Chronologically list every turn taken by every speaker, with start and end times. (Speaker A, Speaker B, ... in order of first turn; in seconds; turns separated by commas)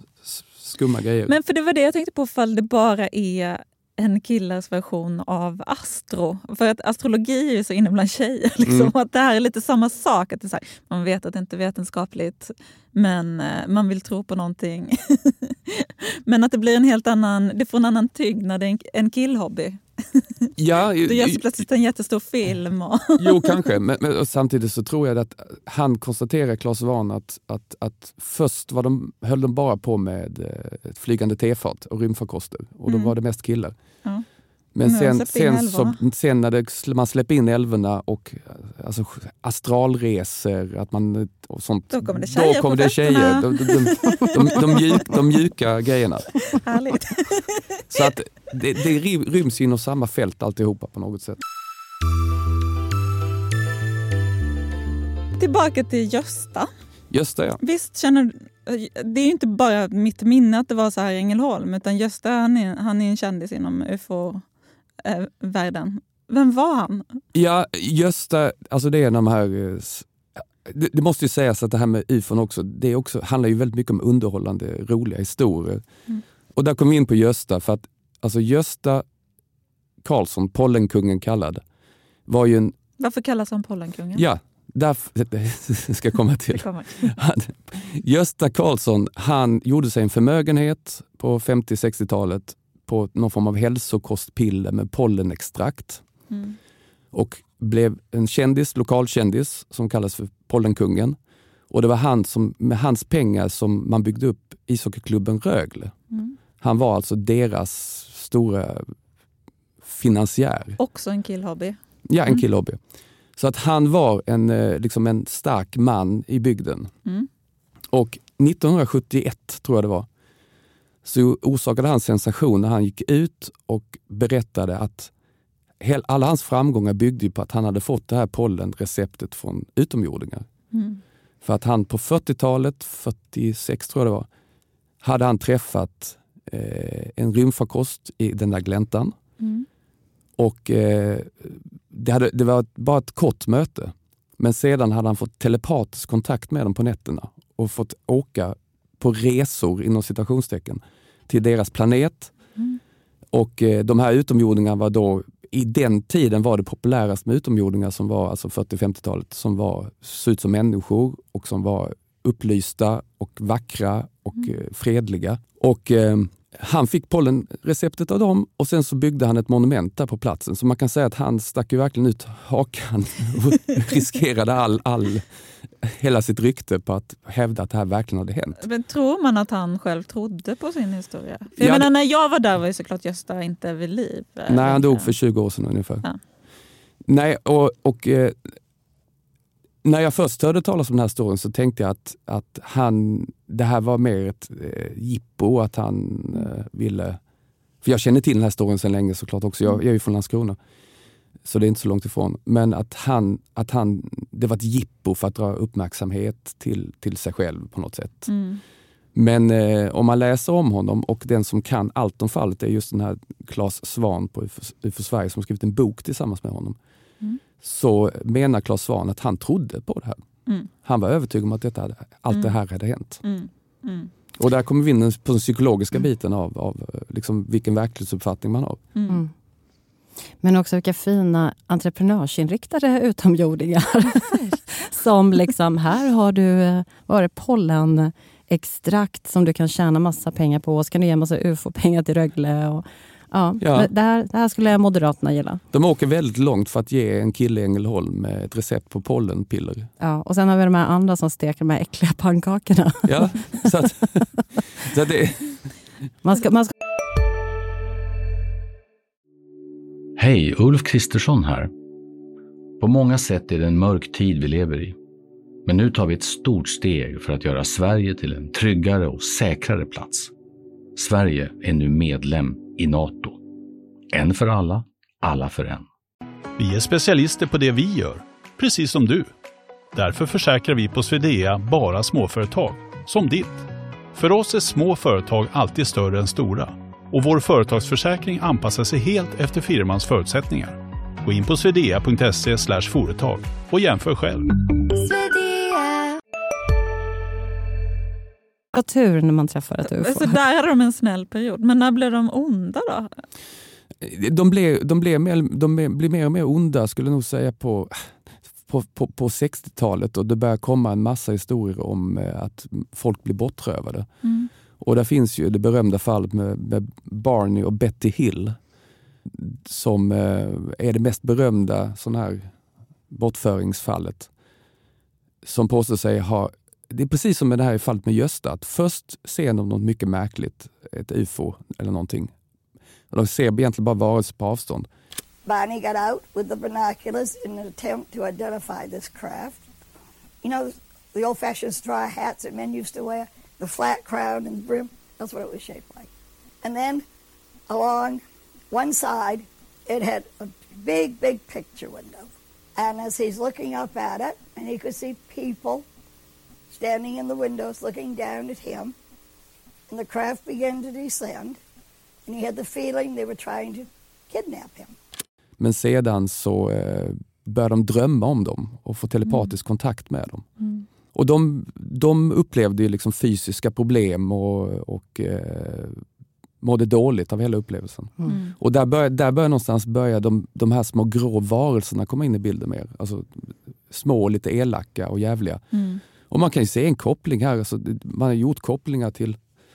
Speaker A: 0.2-1.3, Speaker B: 1.2-20.5, Speaker A: 8.6-8.9, Speaker A: 20.6-21.6, Speaker B: 21.1-23.7, Speaker A: 23.2-33.8, Speaker B: 32.9-33.1, Speaker A: 34.7-46.4, Speaker B: 34.8-36.0, Speaker B: 41.9-45.2, Speaker B: 46.5-47.8, Speaker A: 47.9-51.4, Speaker B: 55.4-56.7, Speaker A: 57.1-57.6, Speaker B: 57.6-64.4, Speaker B: 65.0-67.2, Speaker A: 67.3-70.1, Speaker A: 70.6-75.8, Speaker A: 76.5-79.0, Speaker A: 80.0-81.6, Speaker A: 82.3-82.8, Speaker B: 83.0-84.2, Speaker A: 84.1-96.0, Speaker B: 86.5-87.1, Speaker B: 96.3-96.5, Speaker A: 97.1-101.2, Speaker A: 101.7-105.9, Speaker A: 106.6-108.9, Speaker A: 109.8-110.8, Speaker B: 110.8-111.8, Speaker A: 112.1-112.8, Speaker A: 113.4-116.9, Speaker A: 117.9-120.1, Speaker A: 121.0-125.1, Speaker A: 125.8-130.5, Speaker B: 130.7-131.0, Speaker A: 131.4-134.3, Speaker A: 135.0-139.1, Speaker B: 139.4-139.7, Speaker A: 140.4-152.3, Speaker A: 153.3-175.2, Speaker A: 175.8-178.6, Speaker B: 178.6-185.1, Speaker A: 181.6-181.9, Speaker A: 184.5-186.1, Speaker A: 187.1-188.5, Speaker A: 189.8-197.2, Speaker A: 197.8-200.6, Speaker A: 201.4-208.3, Speaker B: 208.3-208.6, Speaker A: 209.1-216.8, Speaker A: 217.6-220.2, Speaker A: 220.8-223.2, Speaker B: 223.2-224.1, Speaker A: 224.4-228.8, Speaker B: 228.9-229.2, Speaker C: 230.4-245.6, Speaker B: 234.1-234.6, Speaker A: 243.6-243.9, Speaker A: 245.7-249.9, Speaker C: 250.0-253.7, Speaker A: 253.1-254.2, Speaker A: 254.8-255.7, Speaker C: 256.2-256.7, Speaker D: 260.2-261.7, Speaker D: 262.8-264.9, Speaker D: 265.6-270.3, Speaker D: 270.9-273.4, Speaker D: 274.1-275.9, Speaker E: 276.6-279.3, Speaker E: 279.9-294.5, Speaker C: 295.1-295.8, Speaker C: 298.7-300.4, Speaker B: 299.9-303.1, Speaker A: 304.0-308.1, Speaker A: 308.6-314.1, Speaker B: 314.2-314.5, Speaker A: 314.8-318.6, Speaker A: 319.3-322.5, Speaker A: 323.1-324.3, Speaker A: 325.4-332.3, Speaker A: 333.1-334.9, Speaker F: 335.4-339.6, Speaker F: 340.4-346.1, Speaker F: 346.6-347.0, Speaker F: 347.7-355.9, Speaker F: 356.8-358.9, Speaker F: 359.9-361.6, Speaker F: 362.2-364.9, Speaker A: 365.6-370.5, Speaker B: 370.6-370.8, Speaker A: 371.1-376.0, Speaker A: 376.6-385.6, Speaker B: 378.3-378.5, Speaker B: 385.7-386.0, Speaker A: 386.3-389.4